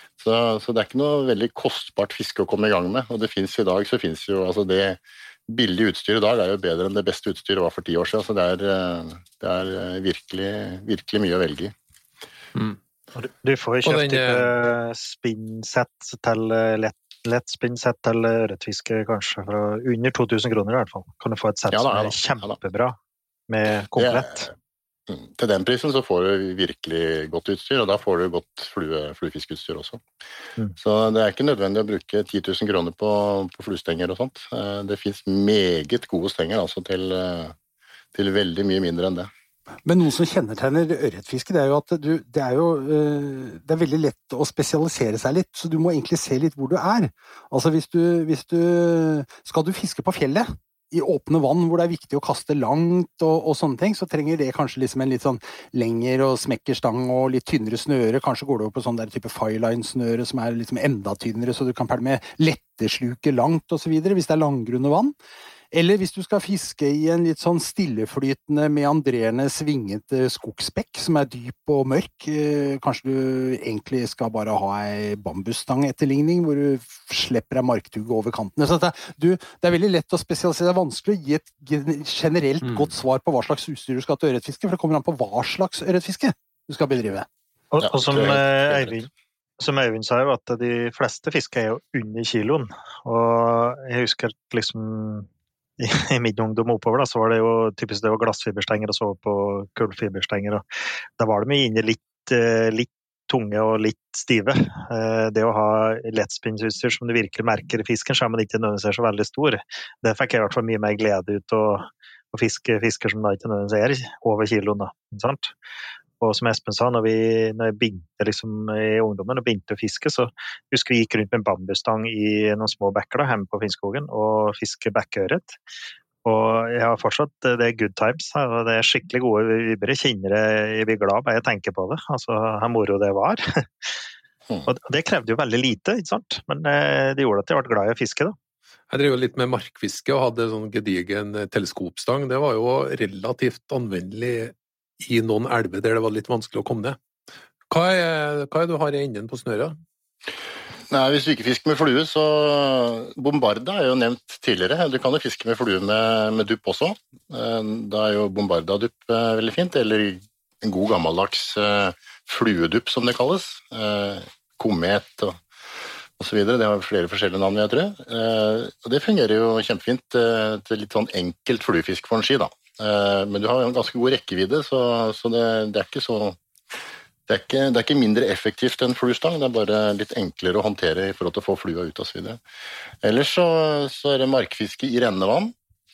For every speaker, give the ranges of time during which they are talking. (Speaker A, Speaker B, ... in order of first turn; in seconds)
Speaker A: 0.2-11.7, 21.7-22.5, 24.0-24.5, 25.1-30.0, 30.8-37.5, 38.1-39.3, 87.8-89.0, 150.9-165.4, 166.2-176.4, 177.3-182.4, 183.0-185.5
Speaker B: 13.2-23.0, 23.5-24.5, 87.7-89.1, 89.6-95.3, 95.8-100.6, 101.2-115.5, 116.2-125.6, 126.2-133.9, 134.7-138.4
Speaker C: 13.8-14.5, 138.9-147.0, 147.7-149.8
Speaker D: 39.9-65.1, 65.7-87.3